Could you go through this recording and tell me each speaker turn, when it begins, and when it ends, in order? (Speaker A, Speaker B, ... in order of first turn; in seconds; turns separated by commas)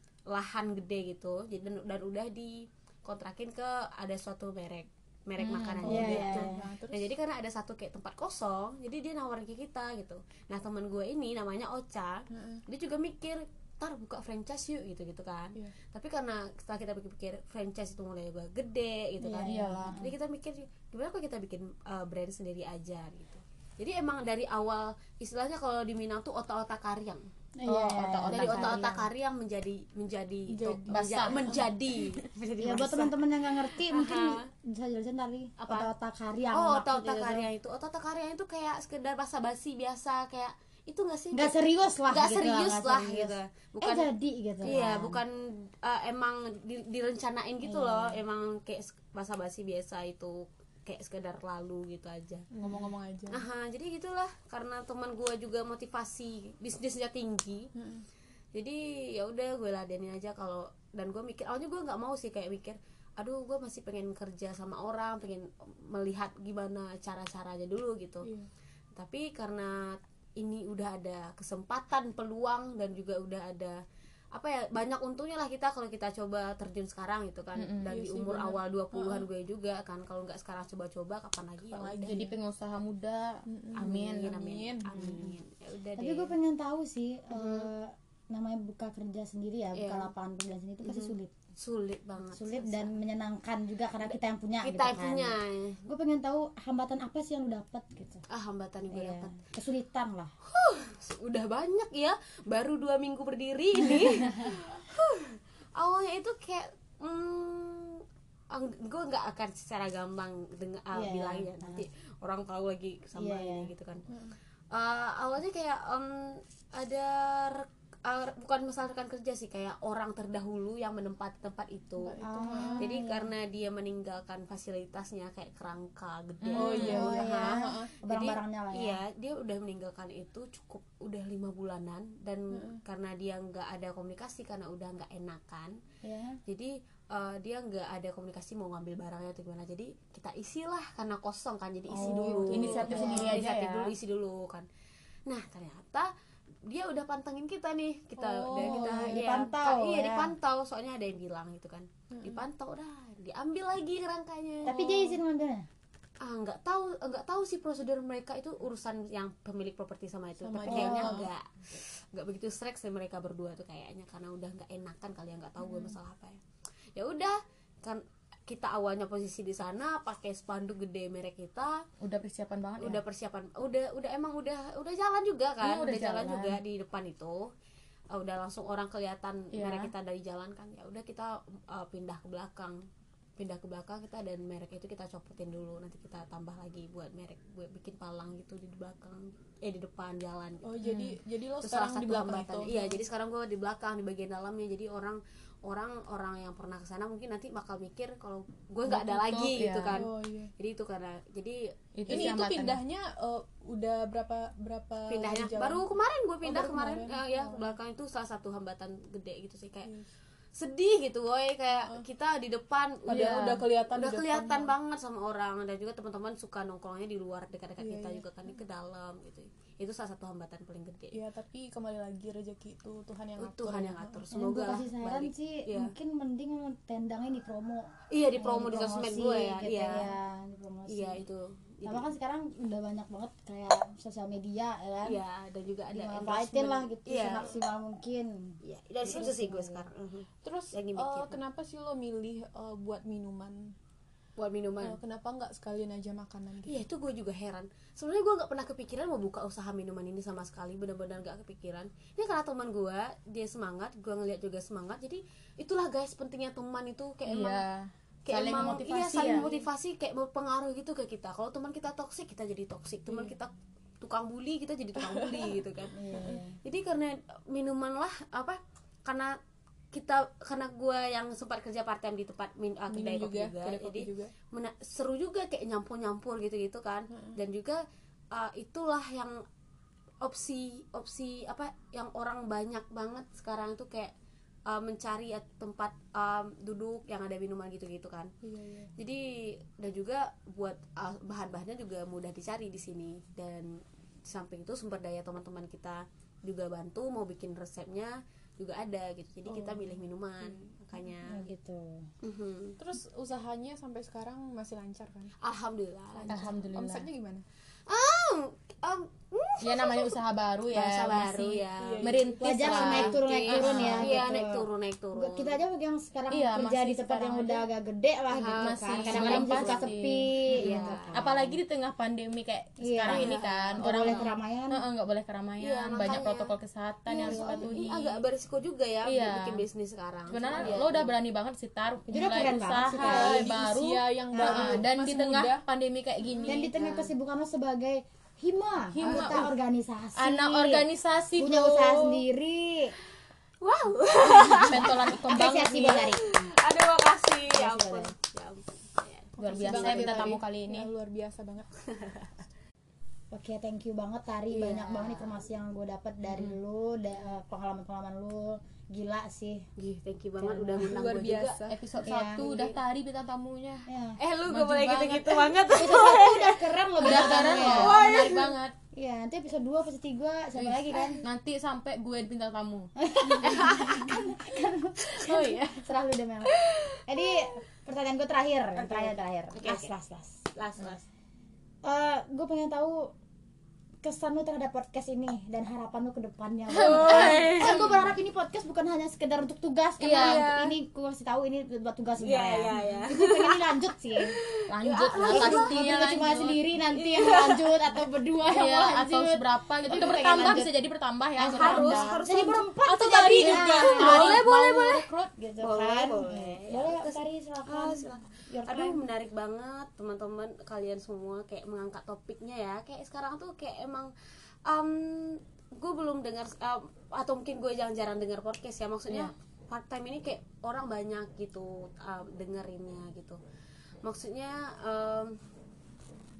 Speaker A: 0.3-27.2, Speaker B: 5.4-6.2, Speaker C: 5.8-7.1, Speaker D: 5.8-6.6, Speaker C: 12.3-12.6, Speaker D: 19.2-20.1, Speaker B: 19.4-20.0, Speaker D: 27.6-29.1, Speaker B: 27.6-28.8, Speaker A: 28.2-34.5, Speaker C: 30.5-32.1, Speaker B: 30.9-31.5, Speaker D: 32.6-37.5, Speaker A: 35.6-35.9, Speaker A: 36.5-41.5, Speaker D: 41.3-45.2, Speaker A: 42.1-44.1, Speaker A: 44.6-52.5, Speaker D: 47.6-48.2, Speaker C: 52.5-53.4, Speaker A: 53.3-57.7, Speaker C: 57.8-58.0, Speaker A: 58.5-68.3, Speaker C: 68.2-68.5, Speaker A: 69.0-73.8, Speaker A: 74.3-82.0, Speaker B: 77.6-77.9, Speaker C: 77.8-79.3, Speaker B: 81.8-84.3, Speaker C: 81.8-82.3, Speaker D: 82.0-82.3, Speaker C: 83.5-85.2, Speaker A: 83.8-86.3, Speaker D: 86.0-91.3, Speaker A: 87.3-87.7, Speaker A: 89.7-90.1, Speaker A: 90.8-92.9, Speaker D: 92.3-98.2, Speaker A: 94.6-95.8, Speaker A: 98.3-99.4, Speaker D: 98.9-100.3, Speaker A: 100.5-114.0, Speaker D: 110.9-111.8, Speaker D: 113.2-113.7, Speaker C: 114.1-114.3, Speaker A: 114.7-122.2, Speaker C: 122.0-122.9, Speaker D: 122.2-123.3, Speaker A: 122.8-135.8, Speaker B: 126.4-127.1, Speaker C: 126.5-127.9, Speaker D: 126.8-129.0, Speaker C: 132.5-132.8, Speaker D: 136.0-136.4, Speaker A: 136.4-144.7, Speaker C: 141.9-143.2, Speaker D: 141.9-143.4, Speaker B: 142.4-143.9, Speaker A: 145.3-146.1, Speaker A: 146.7-154.8, Speaker C: 148.2-149.3, Speaker D: 148.7-150.3, Speaker C: 152.1-152.4, Speaker C: 154.6-155.1, Speaker D: 154.6-155.7, Speaker A: 156.2-166.4, Speaker C: 160.4-161.3, Speaker D: 160.7-161.2, Speaker C: 165.6-165.9, Speaker A: 166.9-171.8, Speaker B: 172.0-173.0, Speaker A: 172.8-177.5, Speaker B: 175.6-176.6, Speaker A: 178.1-182.8, Speaker B: 179.5-179.9, Speaker A: 183.4-190.8, Speaker C: 190.6-193.0, Speaker B: 190.8-191.2, Speaker A: 191.6-202.4, Speaker B: 198.9-200.0, Speaker C: 199.9-200.5, Speaker B: 201.9-202.8, Speaker C: 202.1-205.9, Speaker A: 205.1-209.9, Speaker C: 206.4-207.7, Speaker A: 210.5-213.4, Speaker C: 211.8-212.0, Speaker C: 213.1-214.7, Speaker B: 213.1-213.6, Speaker A: 213.9-221.2, Speaker C: 217.8-218.2, Speaker C: 221.1-224.2, Speaker A: 223.4-225.9, Speaker D: 224.3-227.8, Speaker A: 228.1-230.1, Speaker D: 228.4-231.2, Speaker A: 230.9-232.1, Speaker D: 231.8-235.2, Speaker A: 235.0-237.6, Speaker D: 235.9-239.8, Speaker A: 238.6-241.4, Speaker C: 240.4-243.7, Speaker A: 244.4-245.0, Speaker C: 244.8-246.8, Speaker A: 246.7-257.6, Speaker B: 257.2-259.5, Speaker A: 258.2-269.4, Speaker C: 259.2-259.6, Speaker C: 265.0-265.5, Speaker D: 265.9-266.6, Speaker C: 266.1-266.4, Speaker A: 269.9-277.8, Speaker C: 272.9-274.3, Speaker A: 278.3-279.4, Speaker A: 280.2-284.1, Speaker A: 284.7-288.3, Speaker C: 288.4-288.9, Speaker A: 289.0-301.4, Speaker C: 299.5-300.0, Speaker D: 301.3-302.1, Speaker A: 302.2-302.8, Speaker C: 302.8-305.3, Speaker A: 305.4-306.4, Speaker C: 306.1-307.4, Speaker B: 306.3-307.1, Speaker A: 307.9-310.2, Speaker B: 309.6-314.2, Speaker A: 310.7-315.6, Speaker C: 311.8-313.0, Speaker D: 312.4-314.6, Speaker D: 315.1-321.6, Speaker B: 316.3-317.7, Speaker A: 318.3-319.9, Speaker B: 318.6-328.2, Speaker A: 320.5-321.3, Speaker D: 322.8-324.8, Speaker A: 323.1-324.3, Speaker A: 325.6-326.5, Speaker D: 327.1-327.7, Speaker A: 327.2-331.1, Speaker B: 329.0-329.6, Speaker B: 330.3-336.7, Speaker D: 332.1-333.5, Speaker C: 332.9-335.6, Speaker D: 334.3-334.8, Speaker D: 336.4-340.9, Speaker A: 336.8-337.1, Speaker B: 338.9-339.5, Speaker C: 339.1-339.4, Speaker B: 340.1-342.2, Speaker D: 341.4-342.9, Speaker A: 343.6-350.3, Speaker D: 344.5-346.4, Speaker B: 344.5-346.1, Speaker D: 347.5-348.1, Speaker C: 349.4-351.7, Speaker B: 349.4-350.9, Speaker D: 349.5-350.4, Speaker A: 351.9-352.3, Speaker D: 353.3-359.7, Speaker A: 354.5-355.4, Speaker A: 359.8-361.6, Speaker D: 360.4-360.9, Speaker C: 360.8-361.8, Speaker B: 361.7-363.9, Speaker D: 362.0-362.4, Speaker A: 362.4-362.8, Speaker D: 363.9-364.2, Speaker A: 364.2-368.6, Speaker B: 364.4-365.5, Speaker D: 365.7-368.0, Speaker B: 367.0-368.7, Speaker D: 368.9-371.2, Speaker B: 370.6-372.9, Speaker D: 373.0-376.5, Speaker A: 373.4-374.1, Speaker C: 375.2-375.7, Speaker B: 375.2-375.7, Speaker D: 377.1-380.4, Speaker A: 378.8-379.9, Speaker A: 380.5-381.0, Speaker D: 381.8-383.1, Speaker D: 384.0-394.4, Speaker B: 386.7-388.1, Speaker A: 386.7-387.8, Speaker B: 390.0-390.6, Speaker A: 390.1-390.7, Speaker A: 392.2-393.8, Speaker A: 394.4-396.1, Speaker B: 394.7-396.6, Speaker D: 395.2-400.7, Speaker A: 396.9-397.7, Speaker B: 398.5-402.2, Speaker A: 399.9-400.5, Speaker D: 401.4-409.0, Speaker A: 401.5-402.7, Speaker B: 402.8-404.5, Speaker C: 403.2-403.7, Speaker A: 403.7-405.1, Speaker A: 405.6-414.1, Speaker A: 414.6-423.4, Speaker A: 424.0-425.4